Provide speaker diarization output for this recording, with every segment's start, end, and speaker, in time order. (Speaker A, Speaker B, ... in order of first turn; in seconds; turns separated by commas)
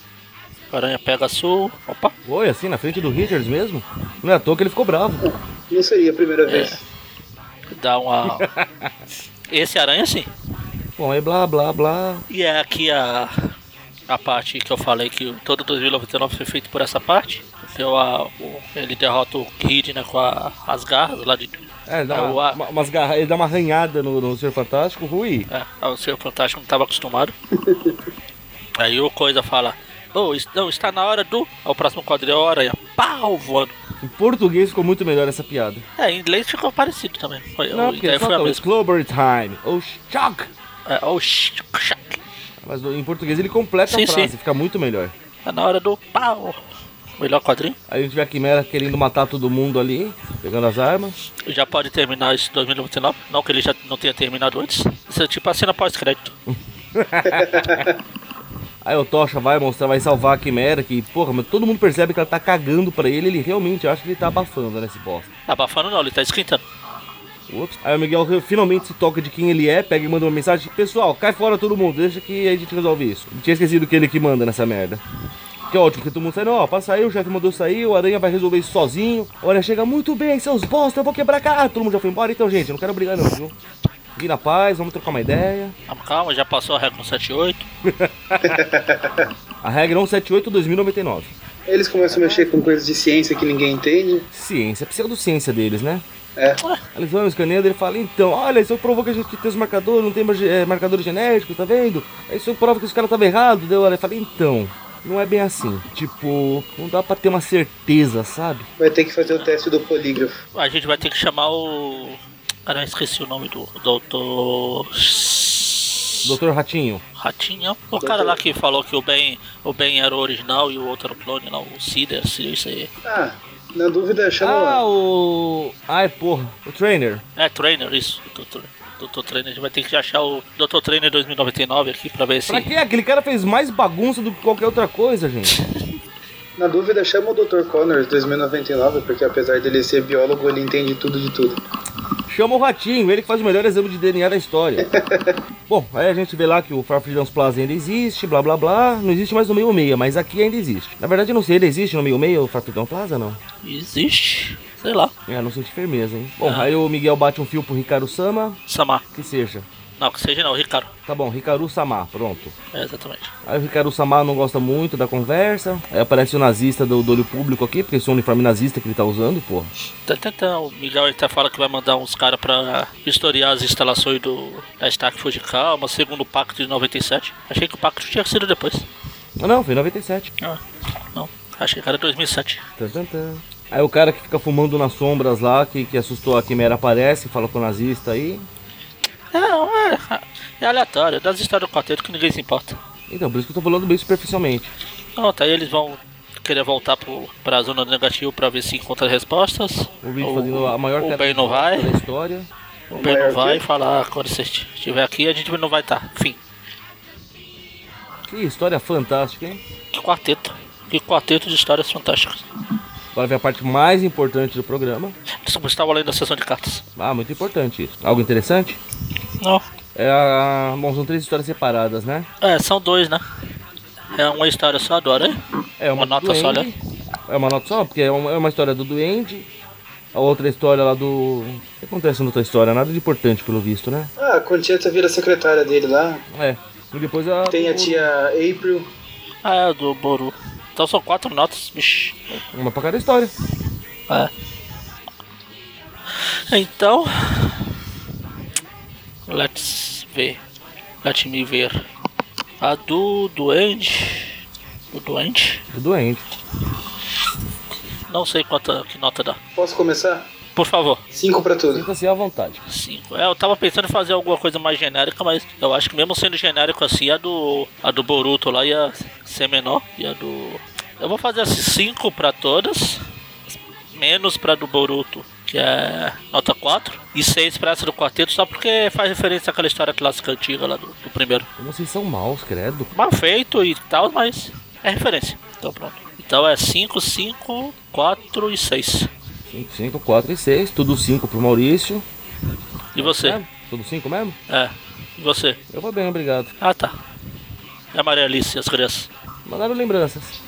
Speaker A: 0.7-2.1, Speaker B: 2.2-5.2, Speaker C: 5.2-6.8, Speaker A: 6.5-6.8, Speaker A: 7.7-8.5, Speaker B: 8.3-8.9, Speaker A: 9.5-10.3, Speaker B: 11.0-12.2, Speaker A: 12.3-13.3, Speaker A: 14.1-22.6, Speaker B: 21.9-25.5, Speaker A: 25.5-27.3, Speaker C: 27.6-27.9, Speaker A: 28.8-33.7, Speaker B: 34.0-35.8, Speaker A: 36.0-38.6, Speaker B: 37.7-40.5, Speaker A: 40.9-42.2, Speaker B: 42.6-45.1, Speaker A: 43.9-44.3, Speaker A: 45.5-46.6, Speaker A: 47.2-47.8, Speaker B: 47.9-51.1, Speaker A: 51.5-56.4, Speaker B: 56.9-57.9, Speaker B: 58.8-65.3, Speaker A: 65.5-66.6, Speaker B: 67.5-75.0, Speaker B: 75.7-83.5, Speaker B: 84.2-85.7, Speaker A: 85.9-87.7, Speaker B: 87.8-88.6, Speaker C: 88.4-89.3, Speaker B: 89.6-91.3, Speaker C: 91.7-94.2, Speaker B: 92.1-92.5, Speaker B: 94.3-96.0, Speaker C: 96.3-96.6, Speaker B: 96.9-108.7, Speaker C: 108.8-110.4, Speaker A: 110.5-116.3, Speaker B: 116.2-117.0, Speaker A: 117.2-122.9, Speaker C: 118.0-118.4, Speaker C: 123.0-124.8, Speaker B: 124.4-127.2, Speaker A: 127.4-132.7, Speaker B: 132.5-135.5, Speaker C: 136.6-141.6, Speaker B: 142.3-144.9, Speaker C: 144.8-145.4, Speaker B: 145.7-153.4, Speaker A: 153.6-155.1, Speaker B: 155.3-158.6, Speaker A: 156.4-156.7, Speaker A: 158.7-159.0, Speaker B: 159.1-159.7, Speaker A: 160.0-160.9, Speaker B: 161.1-162.5, Speaker A: 162.7-163.3, Speaker B: 163.4-169.7, Speaker A: 170.1-178.9, Speaker B: 179.4-180.3, Speaker A: 181.1-182.6, Speaker B: 182.8-188.5, Speaker A: 189.3-192.8, Speaker B: 193.1-194.7, Speaker A: 195.2-202.0, Speaker B: 200.0-202.5, Speaker A: 202.9-206.4, Speaker C: 202.9-203.6, Speaker B: 208.3-209.6, Speaker A: 209.9-212.4, Speaker B: 213.1-215.2, Speaker A: 215.4-216.8, Speaker B: 216.9-218.8, Speaker B: 219.9-222.3, Speaker A: 222.4-223.2, Speaker A: 224.1-225.4, Speaker B: 225.8-226.8, Speaker A: 225.9-226.7, Speaker B: 227.3-229.5, Speaker B: 230.1-234.1, Speaker C: 234.2-236.2, Speaker B: 236.3-238.1, Speaker C: 237.5-238.9, Speaker A: 239.4-242.2, Speaker B: 242.3-243.3, Speaker A: 246.5-247.7, Speaker A: 249.3-250.4, Speaker A: 251.0-251.8, Speaker A: 252.6-254.4, Speaker A: 254.9-255.6, Speaker B: 255.7-256.2, Speaker A: 258.1-259.4, Speaker C: 259.6-260.3, Speaker A: 260.6-261.0, Speaker C: 261.1-261.9, Speaker B: 261.7-262.6, Speaker A: 262.7-273.0, Speaker A: 273.9-281.5, Speaker B: 281.6-282.9, Speaker A: 282.9-289.1, Speaker B: 289.5-292.0, Speaker A: 292.9-293.4, Speaker B: 293.0-294.4, Speaker A: 294.5-295.6, Speaker B: 295.7-296.5, Speaker A: 296.6-296.9, Speaker A: 297.9-299.1, Speaker B: 299.4-300.3